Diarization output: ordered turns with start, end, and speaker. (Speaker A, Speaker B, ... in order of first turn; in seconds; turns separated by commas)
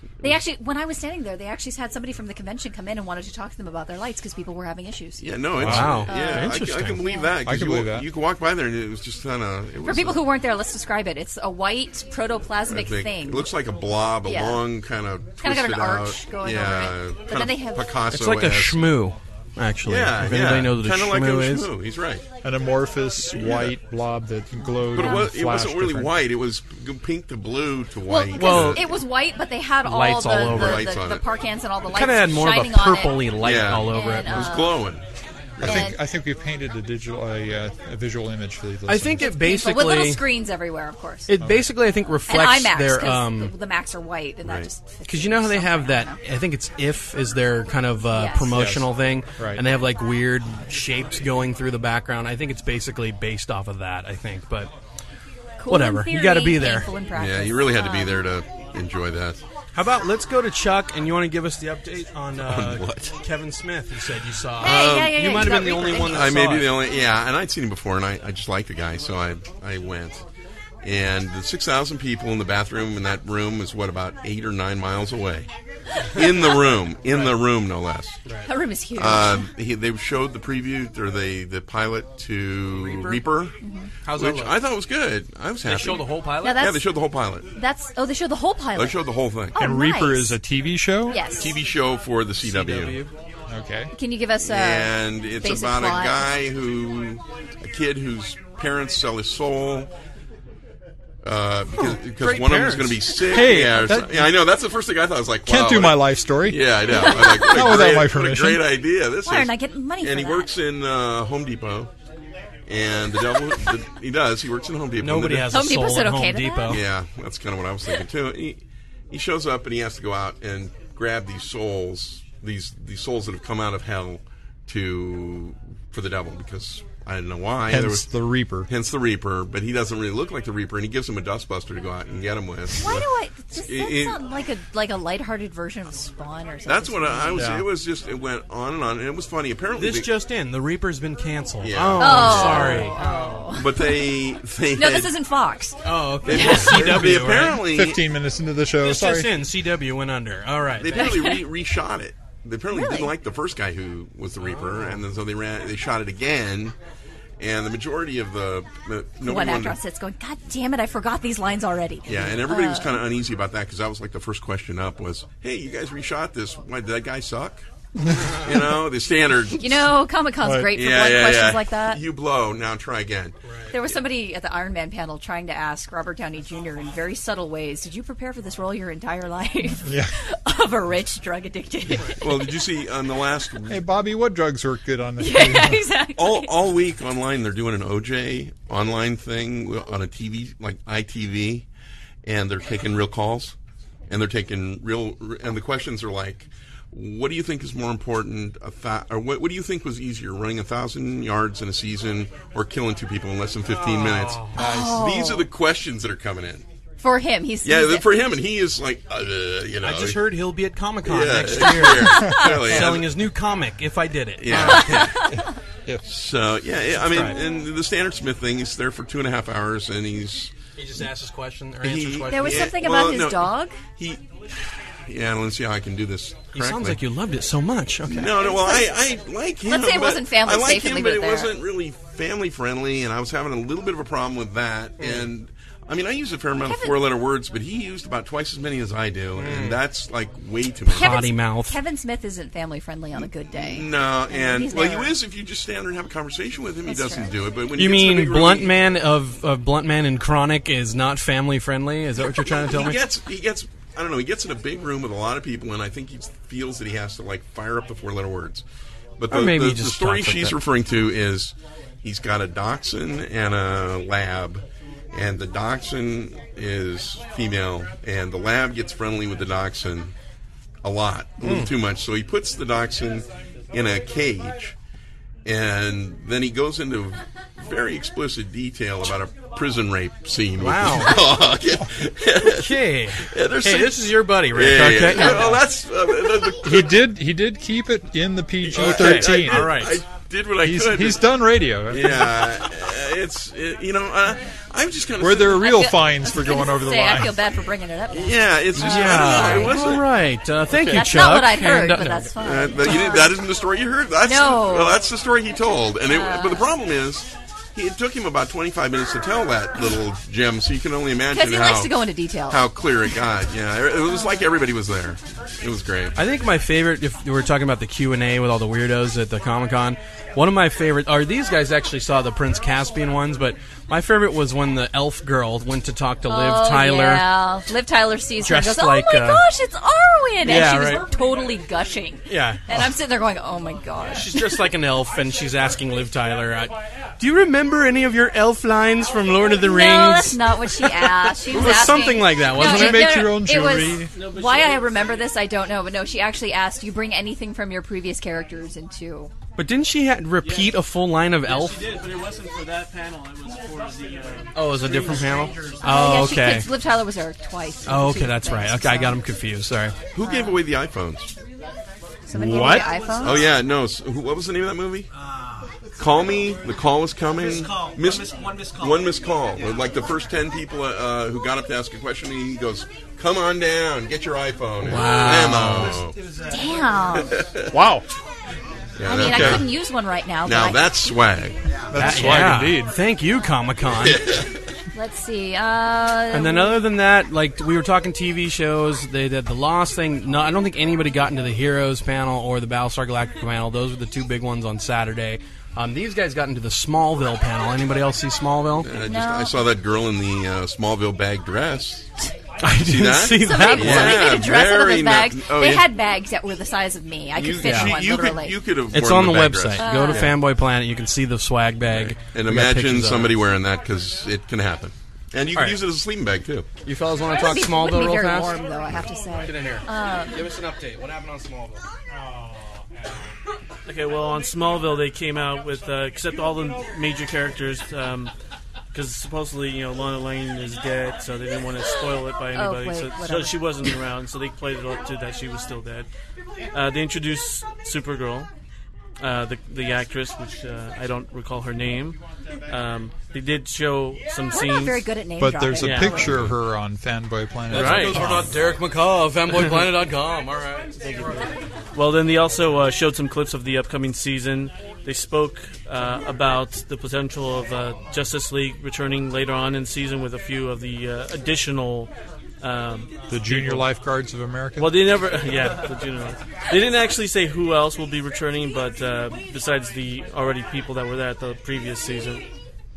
Speaker A: 0.2-5.4, Speaker B: 5.2-10.2, Speaker C: 5.6-6.0, Speaker D: 5.6-7.0, Speaker A: 6.0-7.3, Speaker C: 7.5-8.1, Speaker A: 9.8-13.5, Speaker B: 12.7-19.0, Speaker A: 14.2-14.6, Speaker A: 15.4-17.9, Speaker D: 18.1-21.7, Speaker B: 19.8-22.3, Speaker C: 22.4-26.1, Speaker B: 23.3-23.7, Speaker B: 24.9-29.0, Speaker A: 25.0-25.2, Speaker A: 28.1-33.3, Speaker D: 28.3-28.9, Speaker D: 29.8-30.9, Speaker B: 30.3-31.3, Speaker D: 31.9-34.5, Speaker B: 33.4-35.0, Speaker A: 33.9-34.8, Speaker B: 35.6-35.9, Speaker A: 35.6-36.0, Speaker C: 35.6-39.2, Speaker D: 38.9-40.2, Speaker A: 39.2-41.3, Speaker D: 41.3-43.5, Speaker C: 41.4-41.7, Speaker A: 42.3-46.2, Speaker B: 44.4-44.7, Speaker D: 45.0-54.7, Speaker A: 48.1-48.5, Speaker C: 48.5-49.6, Speaker A: 55.6-58.2, Speaker D: 55.7-56.9, Speaker B: 57.1-59.4, Speaker D: 59.7-66.7, Speaker B: 62.4-63.1, Speaker A: 64.6-66.3, Speaker B: 64.6-70.2, Speaker B: 70.8-75.5, Speaker B: 76.1-78.2, Speaker D: 77.1-77.3, Speaker A: 78.5-79.5, Speaker B: 79.0-83.5, Speaker D: 82.8-83.2, Speaker A: 83.6-83.9, Speaker D: 84.0-84.6, Speaker B: 84.1-87.5, Speaker D: 85.6-86.6, Speaker A: 86.4-86.8, Speaker A: 87.5-90.4, Speaker B: 88.7-89.6, Speaker C: 89.6-91.3, Speaker A: 91.1-91.5, Speaker B: 91.3-93.0, Speaker D: 92.4-93.1, Speaker C: 93.5-93.9, Speaker A: 93.9-96.3, Speaker B: 94.4-99.9, Speaker B: 101.2-111.9, Speaker D: 102.1-103.2, Speaker C: 103.3-104.3, Speaker C: 105.5-108.7, Speaker A: 106.9-107.6, Speaker A: 109.2-110.5, Speaker B: 112.7-115.6, Speaker D: 115.0-116.8, Speaker A: 115.5-116.8, Speaker B: 116.7-128.1, Speaker C: 127.7-128.7, Speaker B: 128.7-134.2, Speaker A: 132.8-137.4, Speaker B: 136.7-140.1, Speaker C: 137.3-137.7, Speaker D: 139.8-143.4, Speaker B: 141.6-142.9, Speaker A: 142.0-144.1, Speaker B: 143.5-145.1, Speaker A: 144.7-147.0, Speaker D: 145.8-147.7, Speaker B: 146.2-148.0, Speaker C: 147.7-149.3, Speaker D: 148.8-151.3, Speaker B: 150.8-156.8, Speaker A: 151.0-151.4, Speaker A: 152.7-153.1, Speaker D: 154.4-155.0, Speaker B: 157.4-159.8, Speaker A: 159.2-163.0, Speaker B: 162.1-167.6, Speaker B: 168.3-169.6, Speaker A: 169.6-172.0, Speaker C: 170.4-170.7, Speaker B: 170.7-173.4, Speaker D: 173.4-173.7, Speaker A: 173.7-182.5, Speaker C: 179.8-180.1, Speaker B: 182.2-183.8, Speaker C: 183.7-185.8, Speaker A: 185.2-186.5, Speaker B: 186.2-191.7, Speaker B: 192.2-193.6, Speaker B: 194.1-206.6, Speaker D: 203.7-204.5, Speaker A: 204.6-205.5, Speaker C: 204.6-205.0, Speaker A: 207.0-208.1, Speaker B: 207.6-210.3, Speaker D: 209.8-215.2, Speaker B: 211.1-213.1, Speaker A: 212.0-212.4, Speaker B: 214.4-215.3, Speaker C: 215.3-216.0, Speaker B: 216.1-220.5, Speaker D: 217.1-217.4, Speaker D: 220.8-222.8, Speaker B: 221.8-227.0, Speaker A: 222.3-223.8, Speaker D: 226.5-228.4, Speaker B: 228.1-241.3, Speaker A: 228.4-228.9, Speaker A: 229.7-231.5, Speaker D: 235.0-235.3, Speaker A: 236.6-237.0, Speaker D: 239.4-239.8, Speaker A: 240.9-245.1, Speaker D: 240.9-241.8, Speaker B: 243.5-248.8, Speaker A: 246.9-247.3, Speaker D: 247.7-253.1, Speaker B: 252.4-258.6, Speaker B: 259.2-270.1, Speaker D: 259.3-260.6, Speaker B: 270.8-274.7, Speaker D: 271.4-271.7, Speaker B: 275.4-286.9, Speaker D: 280.6-281.2, Speaker D: 282.4-285.6, Speaker A: 285.1-285.4, Speaker C: 286.6-289.7, Speaker B: 288.6-291.3, Speaker D: 288.8-290.1, Speaker C: 290.6-292.2, Speaker B: 291.9-295.7, Speaker C: 295.2-297.3, Speaker A: 295.5-299.8, Speaker B: 298.1-300.1, Speaker D: 298.7-302.3, Speaker A: 300.8-303.3, Speaker B: 302.4-316.2, Speaker A: 304.2-305.0, Speaker A: 306.1-306.7, Speaker A: 311.3-312.7, Speaker D: 316.2-327.3, Speaker A: 326.3-334.6, Speaker D: 328.4-329.4, Speaker D: 330.4-331.1, Speaker D: 332.3-332.6, Speaker D: 334.1-343.4, Speaker A: 339.6-349.3, Speaker C: 342.5-344.1, Speaker E: 344.1-345.1, Speaker D: 349.6-351.9, Speaker E: 351.4-355.5, Speaker D: 354.6-356.7, Speaker A: 355.8-359.2, Speaker D: 357.9-359.9, Speaker B: 360.1-361.3, Speaker A: 360.2-360.6, Speaker A: 362.3-363.4, Speaker D: 362.3-362.9, Speaker B: 363.2-365.1, Speaker B: 366.0-376.2, Speaker D: 374.8-376.0, Speaker A: 375.0-375.4, Speaker A: 376.5-377.4, Speaker B: 377.2-377.7, Speaker C: 377.7-378.1, Speaker B: 379.0-379.7, Speaker A: 379.1-381.2, Speaker C: 379.2-379.6, Speaker B: 380.4-381.6, Speaker C: 381.9-382.9, Speaker D: 381.9-384.2, Speaker B: 384.0-384.5, Speaker A: 384.9-386.8, Speaker D: 386.3-398.9, Speaker B: 398.8-402.1, Speaker A: 399.1-399.5, Speaker D: 402.6-404.4, Speaker B: 402.7-405.9, Speaker A: 403.4-408.6, Speaker B: 407.4-410.4, Speaker D: 407.6-408.0, Speaker D: 408.9-413.3, Speaker A: 409.8-410.3, Speaker B: 411.9-416.7, Speaker D: 415.6-415.8, Speaker D: 416.8-418.6, Speaker A: 417.3-420.4, Speaker D: 419.4-421.8, Speaker E: 423.9-428.3, Speaker E: 428.9-436.1, Speaker A: 432.6-433.6, Speaker E: 436.7-438.5, Speaker E: 439.2-445.0, Speaker A: 444.5-446.4, Speaker C: 445.4-448.5, Speaker E: 445.8-446.1, Speaker B: 446.3-446.5, Speaker D: 447.7-451.4, Speaker E: 447.7-448.2, Speaker E: 451.9-463.9, Speaker C: 463.3-464.9, Speaker E: 464.8-472.4